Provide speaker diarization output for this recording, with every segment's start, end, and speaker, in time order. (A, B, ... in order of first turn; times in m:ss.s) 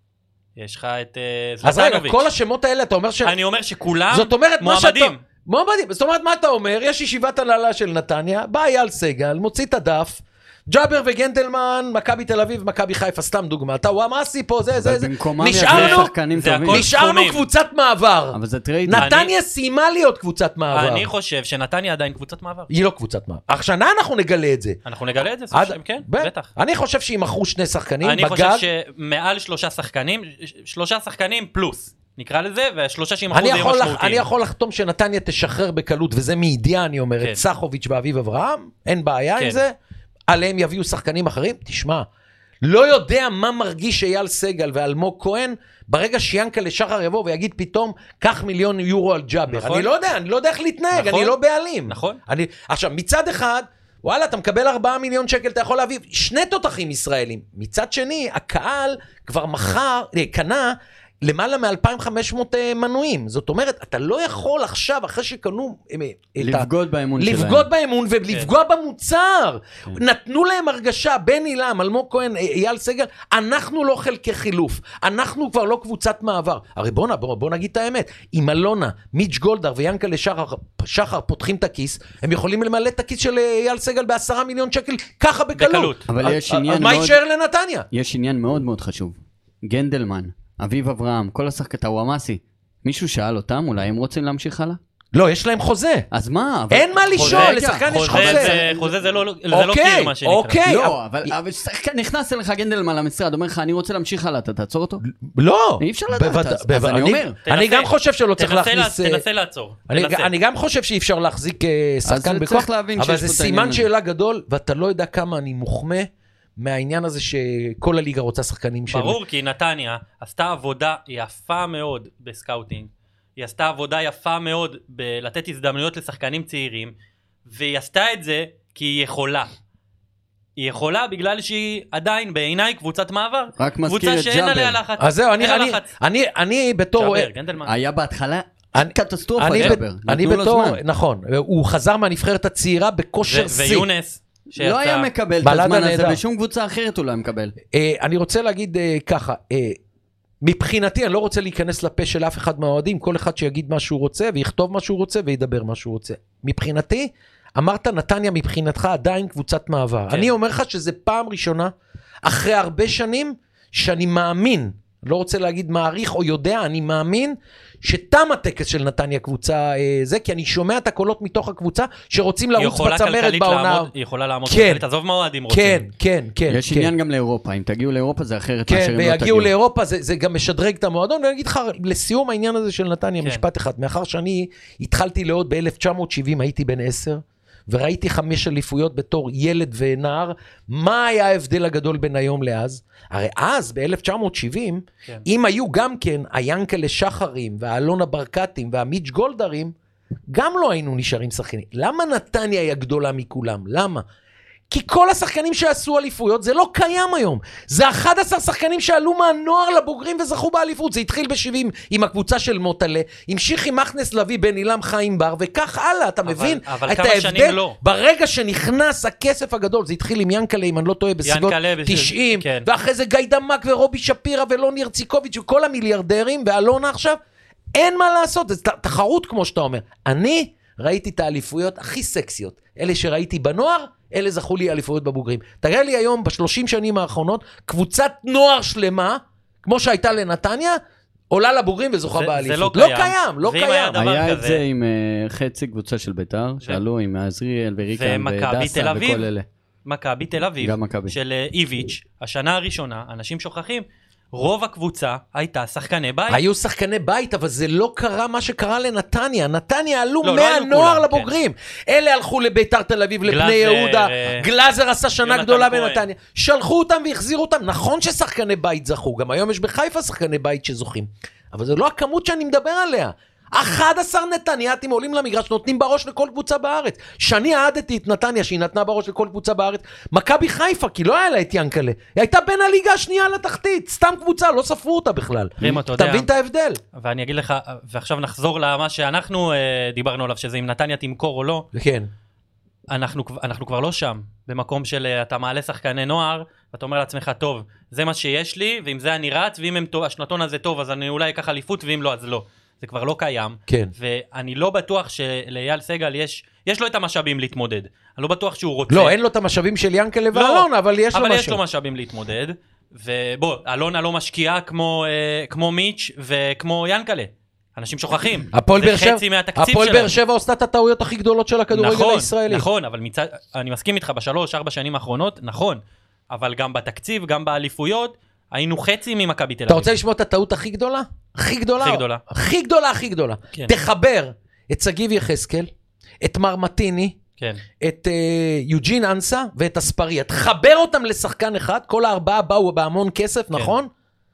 0:00.6-0:02.2 A
0:01.6-0:03.4 B
0:03.2-0:05.2 A
0:04.1-0:16.1 B
0:14.8-0:16.9 C
0:15.6-0:17.4 A
0:16.7-0:21.1 B
0:18.3-0:19.1 C
0:18.9-0:19.3 A
0:20.7-0:22.7 A
0:22.7-0:24.8 B
0:24.8-0:26.5 A
0:25.5-0:28.6 B
0:28.0-0:34.2 A
0:33.3-0:39.7 B
0:39.4-0:39.6 A
0:40.3-0:42.0 B
0:42.6-1:27.9 B
0:49.5-0:49.9 A
0:50.9-0:51.4 A
0:51.9-0:52.2 A
1:06.4-1:07.7 C
1:25.6-1:26.0 A
1:26.1-1:27.2 C
1:27.9-1:34.8 C
1:35.1-1:36.1 B
1:36.1-1:39.0 C
1:36.7-1:38.6 B
1:37.2-1:40.6 A
1:39.5-1:41.3 B
1:40.6-1:45.0 C
1:45.1-1:49.2 B
1:45.8-1:47.4 C
1:47.4-1:50.3 A
1:49.9-1:59.2 B
1:52.0-1:53.9 C
1:58.9-2:06.9 A
2:07.5-2:09.5 A
2:10.6-2:15.9 A
2:13.6-2:14.8 C
2:15.0-2:17.3 B
2:17.0-2:17.7 A
2:17.6-2:20.8 C
2:18.7-2:23.9 B
2:23.2-2:25.1 A
2:24.5-2:27.5 C
2:25.4-2:26.2 B
2:27.7-2:29.8 B
2:30.4-2:41.7 B
2:42.2-2:53.9 B
2:52.6-2:55.8 A
2:54.4-2:54.8 B
2:55.5-2:56.9 B
2:56.5-2:59.5 C
2:58.7-3:19.7 B
3:20.3-3:24.0 B
3:24.7-3:47.2 B
3:36.2-3:37.8 A
3:41.2-3:42.7 A
3:47.7-4:00.8 B
4:01.3-4:04.1 B
4:02.1-4:04.6 A
4:04.0-4:09.4 C
4:07.9-4:09.3 A
4:09.8-4:16.4 A
4:10.6-4:11.2 C
4:16.3-4:46.8 B
4:20.2-4:21.3 A
4:23.2-4:24.4 A
4:25.2-4:26.0 A
4:45.6-4:46.3 A
4:46.9-4:51.6 A
4:51.7-4:52.1 B
4:52.9-5:09.1 A
5:08.9-5:11.6 B
5:10.3-5:20.1 A
5:18.5-5:22.7 B
5:21.7-5:29.9 A
5:29.7-5:35.7 B
5:31.8-5:32.2 A
5:36.2-5:37.2 B
5:37.8-5:43.9 B